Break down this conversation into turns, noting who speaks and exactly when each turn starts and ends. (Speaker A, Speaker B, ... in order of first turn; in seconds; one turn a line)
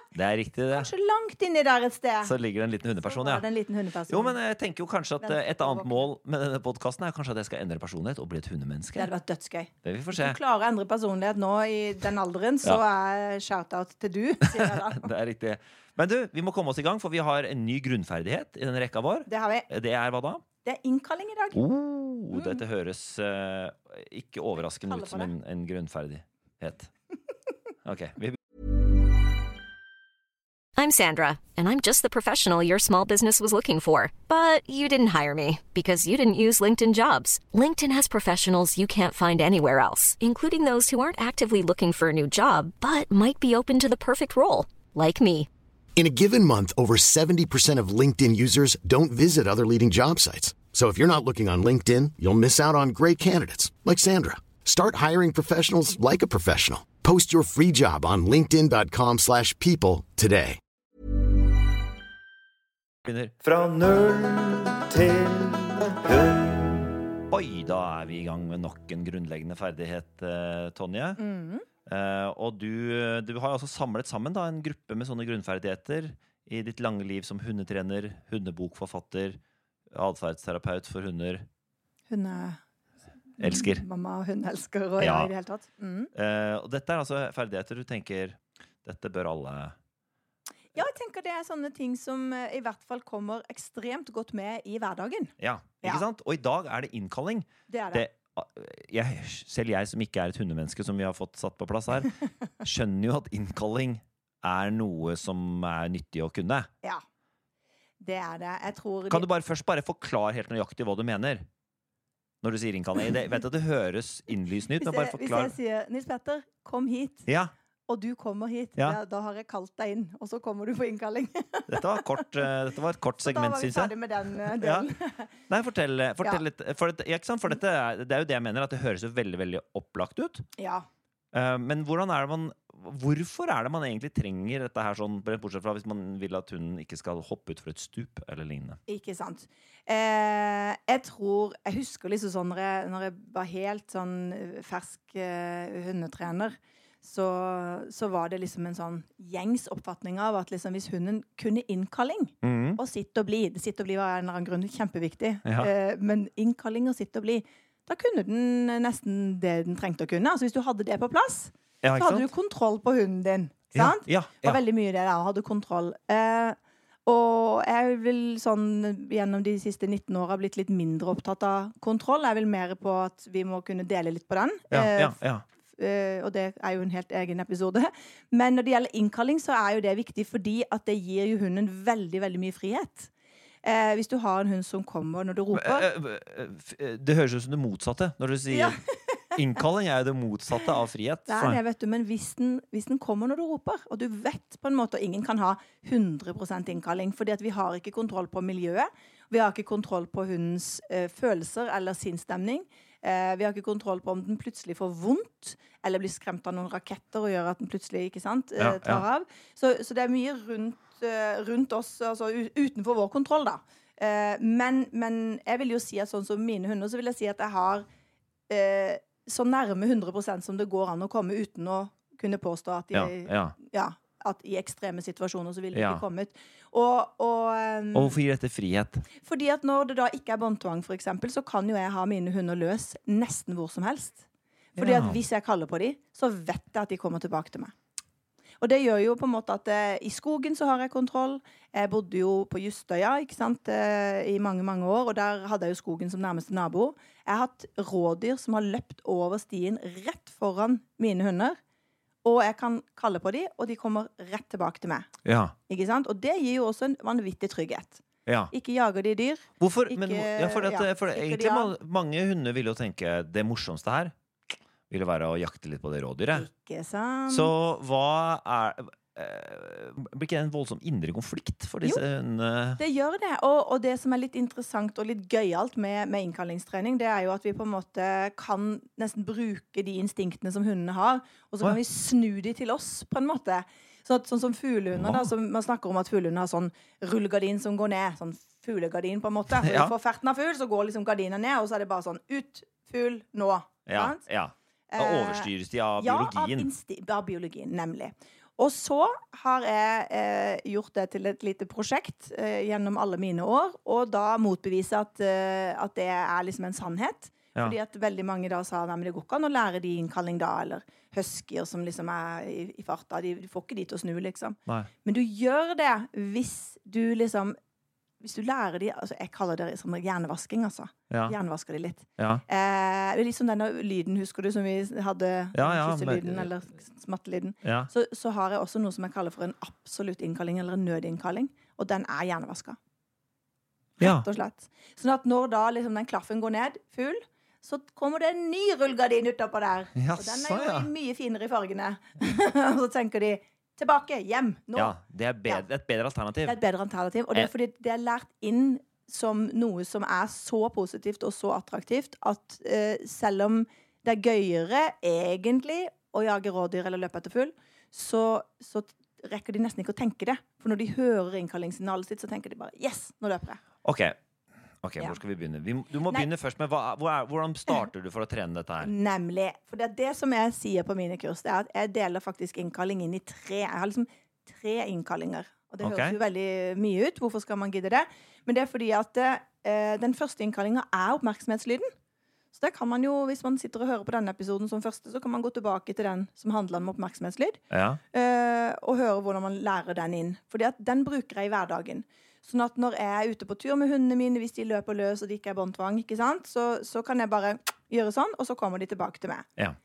Speaker A: 0.1-0.9
Speaker B: 0.7-2.3
Speaker A: 2.2-3.5
Speaker B: 3.0-4.4
Speaker A: 4.1-9.1
Speaker B: 5.2-6.1
Speaker B: 8.9-15.1
Speaker A: 9.8-10.4
Speaker A: 14.5-20.4
Speaker B: 19.2-19.7
Speaker B: 20.6-21.6
Speaker A: 21.5-26.9
Speaker B: 22.3-22.6
Speaker B: 24.6-25.3
Speaker A: 27.8-28.4
Speaker C: 30.8-45.5
Speaker D: 46.0-60.6
Speaker A: 63.0-71.2
Speaker B: 71.2-71.6
Speaker A: 71.8-79.4
Speaker A: 79.9-81.5
Speaker B: 82.1-82.6
Speaker B: 83.4-86.1
Speaker A: 83.4-83.8
Speaker A: 85.0-85.3
Speaker A: 86.1-89.7
Speaker B: 90.7-96.0
Speaker A: 95.4-106.7
Speaker B: 97.7-98.0
Speaker B: 108.0-109.2
Speaker A: 109.1-111.4
Speaker A: 112.4-115.5
Speaker B: 114.8-117.3
Speaker A: 117.3-117.5
Speaker B: 117.9-122.2
Speaker A: 121.7-124.9
Speaker B: 123.2-125.3
Speaker A: 125.5-130.5
Speaker B: 130.6-130.8
Speaker A: 131.3-138.8
Speaker B: 138.9-175.2
Speaker A: 152.4-152.8
Speaker A: 155.4-155.7
Speaker A: 161.8-162.3
Speaker A: 163.7-164.6
Speaker A: 174.7-175.4
Speaker B: 175.7-183.1
Speaker B: 183.6-185.9
Speaker A: 185.5-188.8
Speaker B: 188.5-189.2
Speaker A: 189.3-191.6
Speaker B: 191.3-217.9
Speaker A: 208.6-209.0
Speaker B: 218.5-228.2
Speaker A: 222.9-223.5
Speaker A: 225.7-226.0
Speaker A: 227.9-229.1
Speaker B: 229.2-234.2
Speaker B: 234.7-237.7
Speaker A: 234.8-235.2
Speaker B: 238.6-251.6
Speaker B: 252.2-255.1
Speaker A: 255.2-255.5
Speaker B: 255.7-261.7
Speaker A: 258.2-258.5
Speaker A: 259.6-264.1
Speaker A: 264.9-266.5
Speaker B: 266.3-267.5
Speaker A: 267.3-272.8
Speaker B: 272.8-294.2
Speaker A: 284.9-285.3
Speaker A: 289.5-289.9
Speaker A: 293.9-296.7
Speaker B: 294.9-317.6
Speaker B: 318.2-332.8
Speaker A: 321.1-321.4
Speaker A: 322.2-322.4
Speaker A: 325.5-326.5
Speaker A: 327.6-327.9
Speaker B: 334.0-344.9
Speaker A: 334.0-334.2
Speaker A: 339.9-340.9
Speaker A: 344.8-346.6
Speaker B: 346.4-363.6
Speaker A: 363.8-364.1
Speaker A: 364.8-368.9
Speaker B: 368.8-381.9
Speaker A: 375.8-376.1
Speaker B: 382.5-387.6
Speaker A: 387.7-388.0
Speaker B: 388.1-399.5